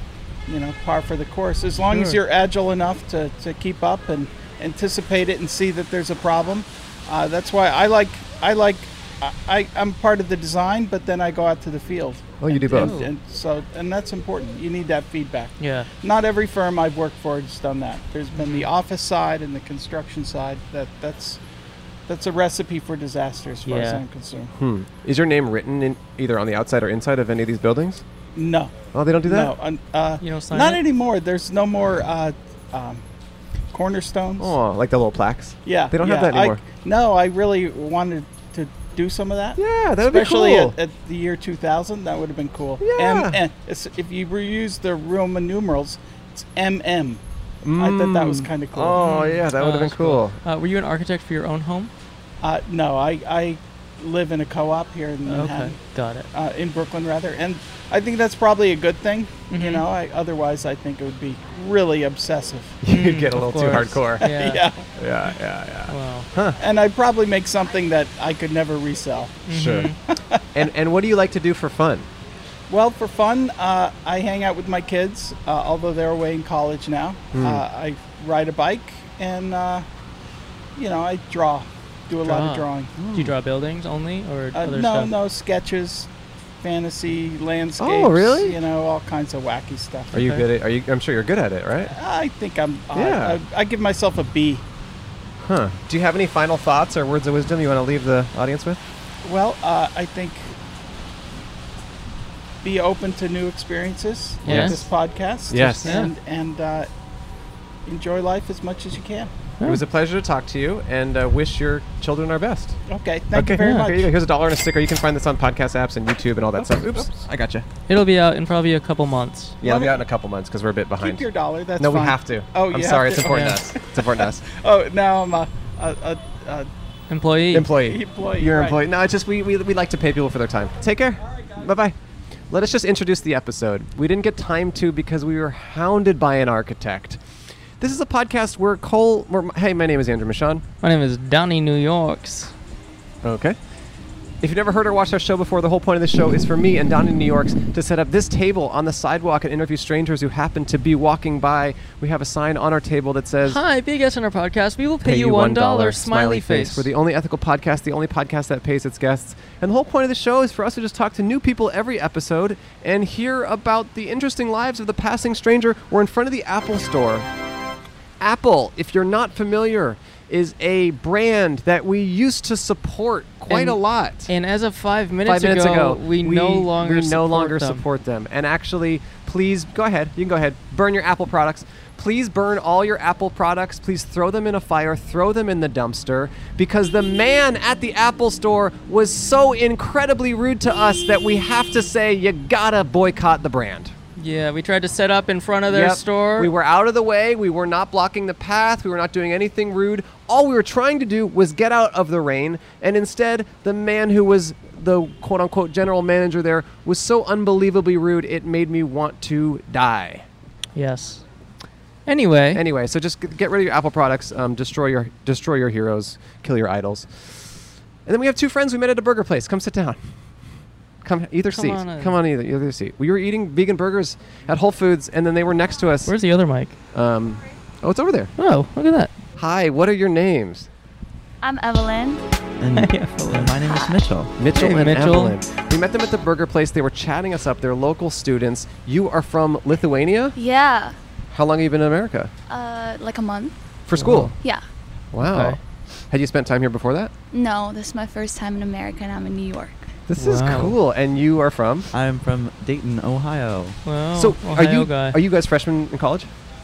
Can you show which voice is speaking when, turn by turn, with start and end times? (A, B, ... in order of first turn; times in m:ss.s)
0:00.5-0:21.4 A
0:01.9-0:02.2 B
0:12.4-0:13.0 C
0:12.7-0:13.1 B
0:15.6-0:15.9 B
0:18.4-0:18.7 B
0:22.1-0:24.5 A
0:23.6-0:24.0 B
0:24.6-0:28.0 C
0:28.4-0:33.0 A
0:28.9-0:29.6 C
0:30.2-0:30.8 B
0:33.7-0:34.5 A
0:34.4-0:36.6 C
0:35.7-0:47.2 A
0:39.6-0:40.8 C
0:42.8-0:43.4 C
0:47.6-0:50.4 C
0:47.8-0:49.0 A
0:49.0-0:51.9 B
0:52.4-0:55.8 A
0:55.2-0:56.3 B
0:56.3-1:02.8 A
0:59.5-0:59.8 B
1:02.8-1:04.2 C
1:02.9-1:04.6 B
1:04.2-1:04.9 A
1:05.0-1:06.6 C
1:05.9-1:06.3 B
1:06.6-1:09.5 A
1:09.5-1:10.0 B
1:09.5-1:09.9 C
1:10.1-1:10.5 A
1:10.5-1:12.1 C
1:12.7-1:19.9 A
1:17.3-1:17.6 C
1:20.8-1:22.9 A
1:22.2-1:25.1 B
1:23.0-1:23.4 C
1:24.5-1:26.1 A
1:26.6-1:30.2 A
1:27.8-1:28.6 C
1:30.1-1:30.5 B
1:30.1-1:32.0 C
1:32.0-1:34.6 A
1:32.9-1:33.4 C
1:35.4-1:38.8 C
1:39.2-1:40.6 A
1:42.6-1:46.9 A
1:44.4-1:44.8 B
1:44.5-1:44.9 C
1:45.5-1:46.0 C
1:45.8-1:46.1 B
1:47.9-1:49.3 A
1:49.6-1:52.8 C
1:52.9-1:54.1 A
1:53.3-1:57.7 C
1:57.9-1:59.6 B
1:59.6-2:01.3 C
1:59.6-2:00.0 A
2:01.0-2:06.7 A
2:01.8-2:04.4 C
2:03.2-2:03.6 B
2:07.1-2:07.7 B
2:07.5-2:12.0 C
2:07.8-2:08.8 A
2:12.5-2:17.2 C
2:17.8-2:20.6 C
2:20.8-2:22.5 B
2:23.2-2:23.6 C
2:24.4-2:33.6 C
2:33.4-2:36.9 B
2:35.0-2:47.3 C
2:48.2-2:54.3 C
2:53.5-2:57.8 B
2:55.2-3:13.9 C
3:14.2-3:16.5 B
3:15.7-3:30.2 C
3:30.8-3:31.2 B
3:32.1-3:32.6 B
3:32.5-3:37.5 C
3:38.1-3:40.0 C
3:41.0-3:46.2 C
3:41.5-3:42.2 B
3:46.0-3:46.8 B
3:46.9-3:48.3 C
3:48.4-3:49.1 B
3:49.4-3:50.7 C
3:51.4-3:52.2 D
3:52.6-3:54.3 E
3:52.8-3:53.5 B
3:53.6-3:53.9 D
3:54.4-4:00.4 C
3:54.5-3:55.4 B
4:00.4-4:01.0 D
4:01.3-4:02.3 C
4:02.5-4:03.6 D
4:03.9-4:04.3 C
4:04.0-4:04.4 B
4:05.1-4:05.6 C
4:05.2-4:05.6 B
4:06.1-4:07.1 C
4:07.3-4:09.8 D
4:10.1-4:11.9 C
4:10.2-4:10.8 B
4:11.9-4:13.8 E
4:13.8-4:15.2 B
4:14.1-4:16.3 C